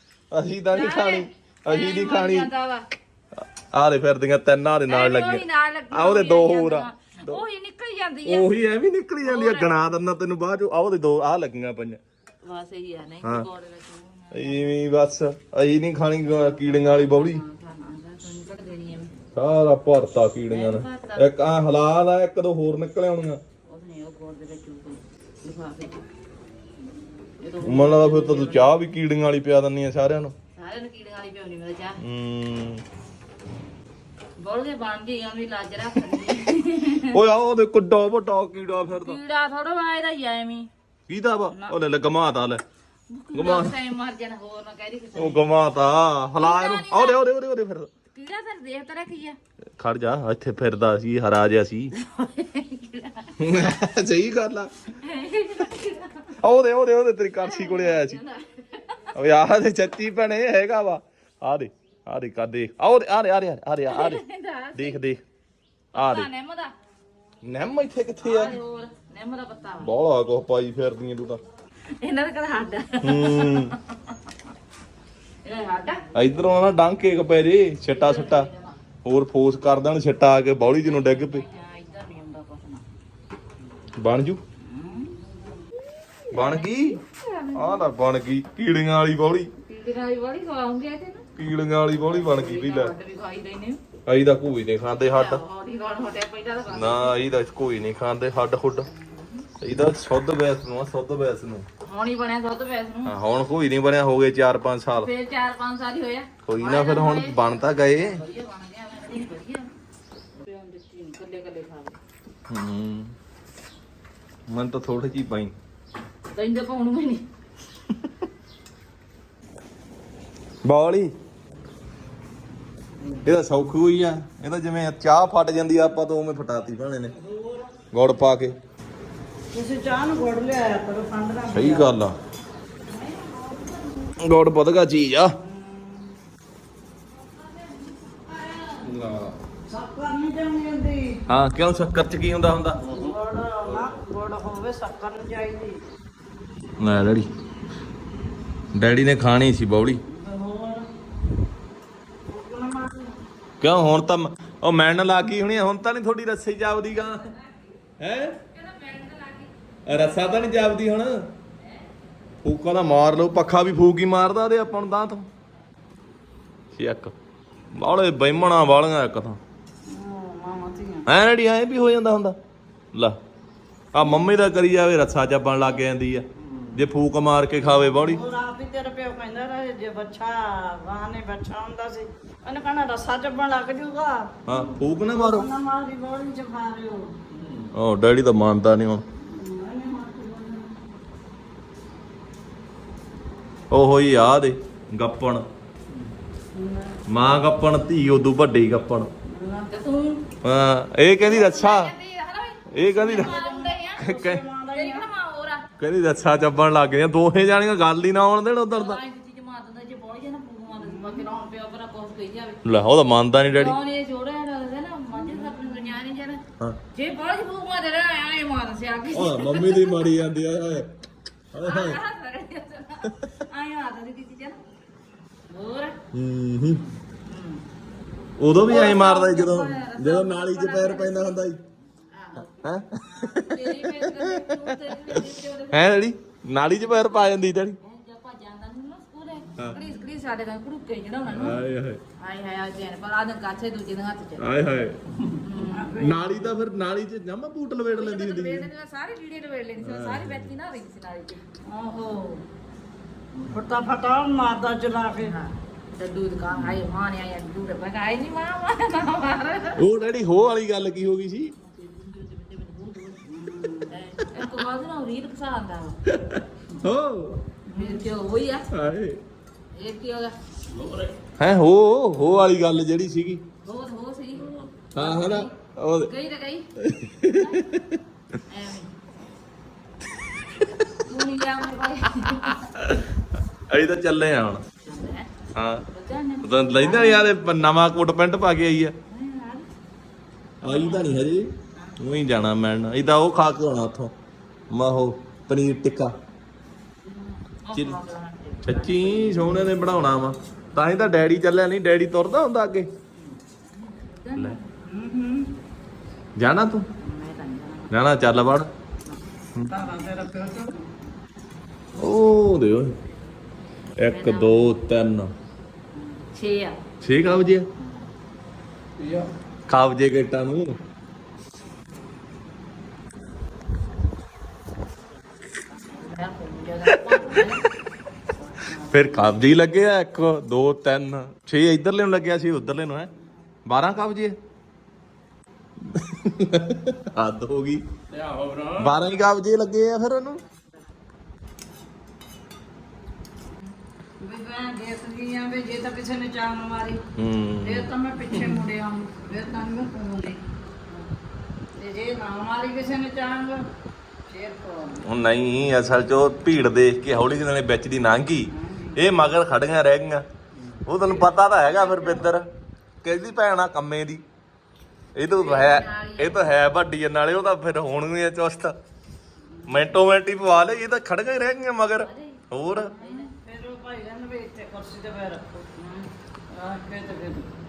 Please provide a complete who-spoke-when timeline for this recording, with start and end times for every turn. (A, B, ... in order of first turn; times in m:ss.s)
0:00.3-0:02.5 A
0:00.7-0:02.9 B
0:03.5-0:07.4 A
0:04.9-0:08.5 B
0:08.2-0:12.0 A
0:09.2-0:09.7 B
0:12.4-0:14.7 B
0:14.3-0:17.4 A
0:16.3-0:19.1 B
0:19.3-0:23.4 A
0:20.5-0:21.3 B
0:23.7-0:26.0 B
0:27.4-0:28.7 B
0:27.6-0:30.3 A
0:30.6-0:32.0 B
0:32.0-0:32.8 A
0:34.4-0:37.2 B
0:37.1-0:39.2 A
0:38.9-0:40.7 B
0:41.1-0:42.6 A
0:41.5-0:41.8 B
0:43.1-0:45.4 B
0:43.3-0:43.7 A
0:45.2-0:47.9 A
0:46.4-0:47.3 B
0:48.1-0:49.4 B
0:49.8-0:51.9 A
0:51.9-0:53.4 B
0:53.4-0:54.7 A
0:54.9-0:56.3 B
0:56.4-0:58.2 A
0:57.4-0:59.1 B
0:59.1-1:04.2 A
1:03.9-1:05.0 B
1:04.7-1:05.2 A
1:05.9-1:06.7 B
1:06.0-1:06.3 A
1:07.4-1:08.6 A
1:08.2-1:09.9 B
1:09.8-1:11.4 A
1:12.0-1:14.1 B
1:13.0-1:13.7 A
1:15.4-1:16.0 B
1:16.1-1:18.5 A
1:17.9-1:18.8 B
1:19.0-1:21.4 A
1:20.6-1:22.8 B
1:24.0-1:24.4 A
1:24.6-1:25.1 B
1:26.3-1:27.0 A
1:26.3-1:27.9 B
1:27.5-1:29.5 A
1:29.6-1:31.2 B
1:31.4-1:32.9 A
1:32.0-1:33.8 B
1:34.0-1:35.4 A
1:35.0-1:37.2 B
1:36.7-1:38.9 A
1:38.9-1:39.5 B
1:39.6-1:41.6 A
1:41.8-1:43.2 B
1:43.0-1:45.1 A
1:45.0-1:49.7 B
1:46.4-1:48.2 A
1:50.4-1:52.0 B
1:52.5-1:53.1 A
1:54.5-1:55.5 A
1:56.3-1:57.2 B
2:00.6-2:01.1 A
2:03.2-2:07.1 A
2:07.9-2:08.6 A
2:09.5-2:12.0 C
2:11.5-2:12.1 A
2:12.9-2:14.1 B
2:14.2-2:15.4 A
2:15.4-2:16.1 C
2:17.6-2:18.9 B
2:18.8-2:19.4 D
2:19.7-2:21.2 C
2:21.3-2:22.8 A
2:22.8-2:23.1 D
2:22.9-2:25.8 C
2:23.7-2:23.9 D
2:26.8-2:27.3 A
2:28.7-2:30.0 A
2:30.1-2:30.9 C
2:32.3-2:33.1 C
2:33.6-2:37.3 A
2:37.0-2:37.7 B
2:38.0-2:38.4 A
2:38.5-2:40.5 B
2:39.8-2:41.3 A
2:42.4-2:45.3 A
2:46.7-2:47.1 A
2:47.7-2:49.4 A
2:49.8-2:51.1 C
2:51.0-2:52.4 A
2:52.9-2:53.2 A
2:53.9-2:58.2 A
2:57.8-3:07.2 C
3:04.4-3:05.5 A
3:07.4-3:07.7 D
3:07.7-3:09.0 A
3:09.2-3:10.8 C
3:13.7-3:15.4 A
3:16.5-3:17.0 C
3:17.1-3:19.1 A
3:19.3-3:19.7 C
3:19.7-3:20.2 B
3:20.4-3:21.9 A
3:21.2-3:24.1 B
3:22.7-3:23.4 A
3:23.0-3:25.1 C
3:24.0-3:24.4 A
3:24.7-3:25.6 B
3:25.8-3:29.0 A
3:28.7-3:32.6 B
3:30.7-3:31.3 C
3:32.6-3:33.7 A
3:33.5-3:36.4 B
3:35.2-3:35.7 C
3:36.9-3:40.2 B
3:39.1-3:40.9 A
3:41.5-3:42.0 A
3:41.6-3:44.6 B
3:45.5-3:46.0 B
3:46.1-3:46.9 A
3:47.2-3:47.6 B
3:48.4-3:51.6 A
3:48.6-3:51.4 B
3:52.1-3:56.0 B
3:52.6-3:57.8 A
3:56.7-4:01.6 B
4:01.3-4:02.0 A
4:02.2-4:04.4 B
4:04.4-4:05.0 A
4:05.4-4:06.0 B
4:05.6-4:06.4 C
4:06.0-4:08.7 A
4:07.9-4:11.4 B
4:09.8-4:10.5 A
4:11.6-4:12.4 C
4:13.4-4:15.4 C
4:15.2-4:19.9 B
4:19.8-4:21.5 A
4:21.6-4:23.2 B
4:23.3-4:24.0 C
4:23.9-4:26.0 B
4:26.1-4:27.4 A
4:27.7-4:28.7 B
4:27.7-4:28.0 C
4:28.7-4:29.2 A
4:29.7-4:30.3 B
4:30.7-4:31.1 D
4:31.4-4:33.4 A
4:33.6-4:35.5 B
4:34.9-4:36.1 A
4:36.0-4:36.7 B
4:36.8-4:38.0 A
4:37.2-4:37.7 B
4:38.5-4:38.9 B
4:41.0-4:42.8 B
4:42.7-4:43.1 A
4:43.7-4:44.6 A
4:44.8-4:45.3 B
4:45.5-4:45.8 A
4:45.9-4:47.3 B
4:46.4-4:48.9 A
4:49.1-4:49.7 B
4:50.6-4:54.1 A
4:50.6-4:52.2 B
4:54.7-4:56.1 A
4:57.0-4:59.6 B
4:58.6-5:02.9 A
5:03.1-5:04.6 B
5:04.8-5:05.5 C
5:06.4-5:06.8 A
5:07.0-5:07.9 B
5:07.9-5:08.7 A
5:09.7-5:10.9 C
5:12.0-5:13.0 A
5:14.0-5:15.3 A
5:14.1-5:14.7 B
5:16.0-5:16.8 B
5:17.0-5:17.7 A
5:17.8-5:18.1 B
5:19.0-5:19.3 D
5:19.7-5:20.8 A
5:25.9-5:27.6 B
5:26.9-5:27.4 A
5:28.5-5:29.1 C
5:28.8-5:33.1 A
5:33.6-5:34.4 A
5:35.8-5:37.8 A
5:38.1-5:39.0 D
5:38.8-5:40.4 A
5:44.2-5:47.0 C
5:47.2-5:47.9 A
5:47.6-5:50.4 C
5:51.8-5:53.6 C
5:54.3-5:55.0 C
5:55.0-6:00.2 A
5:58.5-5:59.0 C
6:00.8-6:02.5 A
6:01.1-6:02.3 B
6:03.0-6:04.2 A
6:05.2-6:08.7 A
6:05.3-6:06.5 B
6:09.7-6:12.9 A
6:12.0-6:13.3 B
6:13.0-6:15.7 C
6:15.8-6:16.1 B
6:16.5-6:17.5 C